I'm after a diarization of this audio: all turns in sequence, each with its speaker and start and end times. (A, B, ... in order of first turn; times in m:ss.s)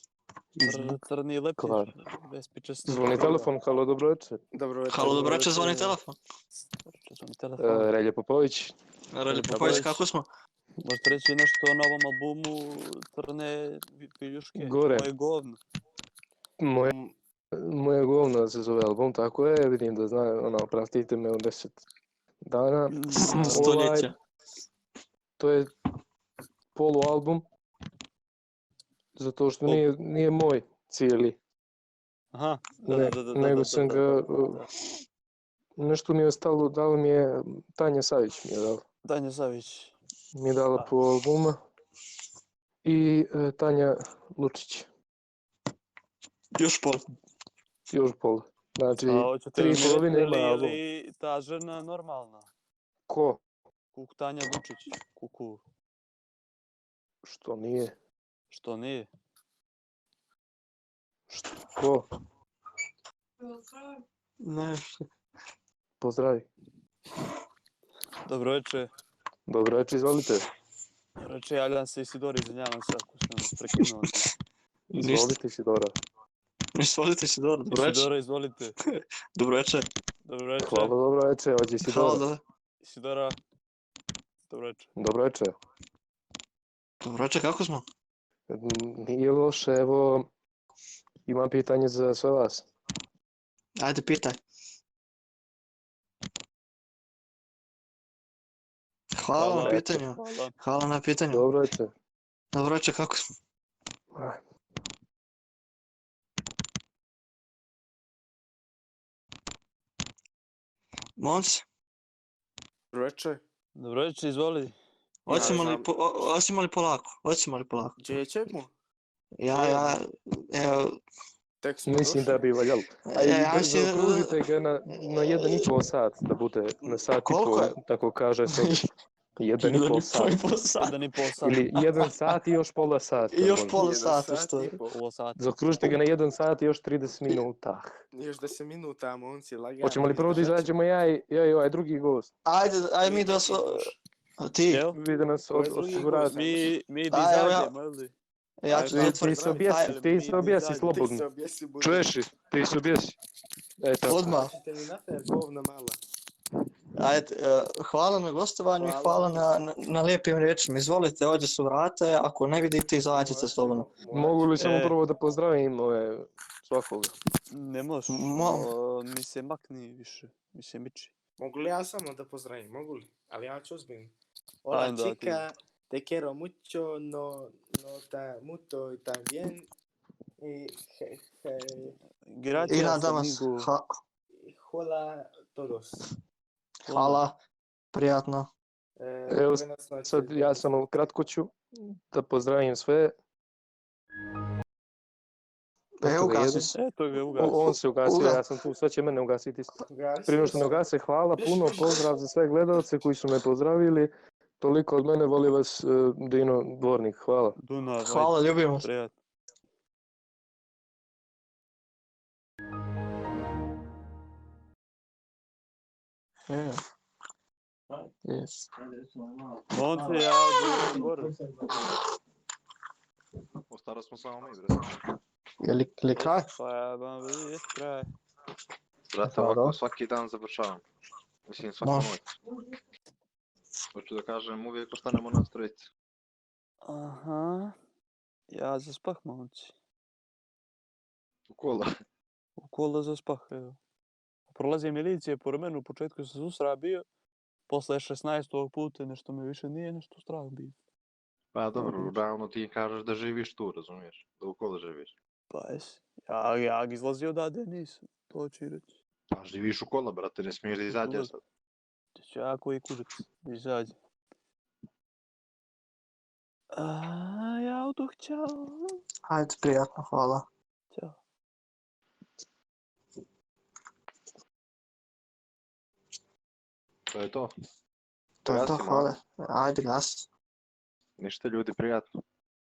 0:00.6-0:01.0 A
0:00.6-0:03.5 B
0:01.6-0:01.9 A
0:02.8-0:04.4 A
0:04.5-0:06.0 C
0:04.9-0:06.2 D
0:06.9-0:07.9 B
0:07.6-0:08.7 A
0:09.1-0:10.3 D
0:09.3-0:10.0 B
0:09.5-0:09.9 C
0:10.8-0:15.6 B
0:14.6-0:15.1 A
0:16.6-0:17.0 A
0:16.8-0:17.1 C
0:17.5-0:21.8 A
0:22.4-0:24.1 A
0:22.9-0:23.7 B
0:23.1-0:24.2 D
0:25.4-0:25.7 A
0:26.7-0:27.5 A
0:29.2-0:31.4 A
0:32.3-0:34.7 B
0:32.8-0:34.6 A
0:35.8-0:38.8 A
0:39.0-0:39.9 B
0:40.3-0:41.6 A
0:42.8-0:44.9 A
0:46.6-0:47.0 D
0:47.9-0:50.8 A
0:49.1-0:52.5 B
0:53.1-0:53.4 A
0:54.0-0:55.6 B
0:57.2-0:58.0 A
0:58.5-0:59.1 B
1:01.3-1:02.1 A
1:03.4-1:05.1 D
1:06.0-1:06.5 A
1:08.2-1:08.9 B
1:09.5-1:10.5 A
1:11.2-1:14.3 B
1:14.9-1:16.0 A
1:15.0-1:15.4 D
1:16.8-1:18.1 D
1:17.7-1:18.8 B
1:18.8-1:19.9 D
1:20.2-1:21.0 B
1:20.6-1:22.2 A
1:21.8-1:22.4 D
1:22.8-1:23.4 B
1:24.5-1:24.9 B
1:25.0-1:25.5 A
1:27.0-1:27.8 D
1:28.5-1:30.3 A
1:31.3-1:32.7 A
1:33.8-1:34.4 D
1:39.1-1:41.5 D
1:39.4-1:40.6 B
1:39.5-1:39.8 A
1:41.3-1:41.9 A
1:42.5-1:43.2 D
1:44.1-1:44.4 A
1:51.2-1:51.6 D
1:52.9-1:53.4 C
1:53.8-1:54.7 B
1:55.3-1:58.0 D
1:55.3-1:55.9 C
1:55.3-1:55.6 B
1:58.0-1:58.7 C
1:59.4-2:01.0 D
1:59.5-2:00.0 C
2:01.6-2:02.5 C
2:01.8-2:08.9 A
2:03.1-2:04.4 D
2:05.1-2:05.7 D
2:07.2-2:07.8 D
2:08.5-2:08.9 D
2:09.4-2:10.4 A
2:09.6-2:10.9 D
2:10.8-2:11.7 B
2:11.4-2:13.8 A
2:11.8-2:12.4 D
2:13.3-2:14.7 D
2:13.7-2:15.0 C
2:14.9-2:15.4 B
2:15.4-2:18.0 A
2:18.1-2:20.7 C
2:19.8-2:22.3 A
2:22.4-2:24.8 D
2:23.0-2:24.0 C
2:24.7-2:25.0 B
2:24.9-2:26.4 A
2:25.5-2:26.6 C
2:26.2-2:28.1 B
2:27.1-2:27.7 D
2:28.6-2:29.9 D
2:28.7-2:29.8 C
2:28.9-2:31.3 A
2:29.7-2:30.9 B
2:30.3-2:32.1 C
2:31.8-2:33.2 A
2:33.8-2:34.4 A
2:34.0-2:34.5 D
2:34.3-2:36.0 C
2:37.0-2:43.9 D
2:38.8-2:39.4 C
2:43.1-2:44.6 C
2:44.1-2:47.1 A
2:44.6-2:45.0 B
2:47.5-2:51.1 B
2:48.1-2:48.7 D
2:51.4-2:54.1 C
2:54.6-2:59.7 C
2:54.7-2:55.4 B
3:00.4-3:02.0 C
3:02.3-3:03.7 B
3:02.5-3:03.0 C
3:02.7-3:04.0 D
3:04.4-3:06.0 C
3:06.9-3:07.2 B
3:06.9-3:07.4 D
3:07.9-3:08.5 D
3:09.0-3:10.7 C
3:09.3-3:13.2 A
3:16.0-3:16.7 D
3:16.0-3:16.7 A
3:16.7-3:17.6 B
3:17.4-3:27.6 A
3:17.4-3:18.4 D
3:19.8-3:20.8 C
3:21.4-3:22.0 C
3:27.6-3:29.1 B
3:28.0-3:28.9 D
3:36.5-3:36.8 D
3:38.2-3:42.0 D
3:39.7-3:41.3 B
3:43.7-3:45.0 E
3:45.6-3:46.5 D
3:46.2-3:48.1 B
3:49.1-3:50.8 E
3:49.3-3:49.8 D
3:51.5-3:52.3 E
3:51.8-3:52.2 D
3:53.9-3:55.9 E
3:56.8-3:57.8 B
3:58.5-3:59.7 B
4:01.5-4:01.9 E
4:02.6-4:03.8 B
4:04.5-4:07.0 B
4:07.7-4:10.8 B
4:11.5-4:15.1 E
4:11.8-4:12.2 B
4:15.5-4:18.9 B
4:19.3-4:21.4 E
4:20.9-4:21.3 B
4:22.2-4:24.0 B
4:26.7-4:29.0 B
4:29.3-4:30.5 D
4:37.1-4:37.5 E
4:38.4-4:40.3 D
4:38.5-4:39.1 E
4:41.2-4:42.1 E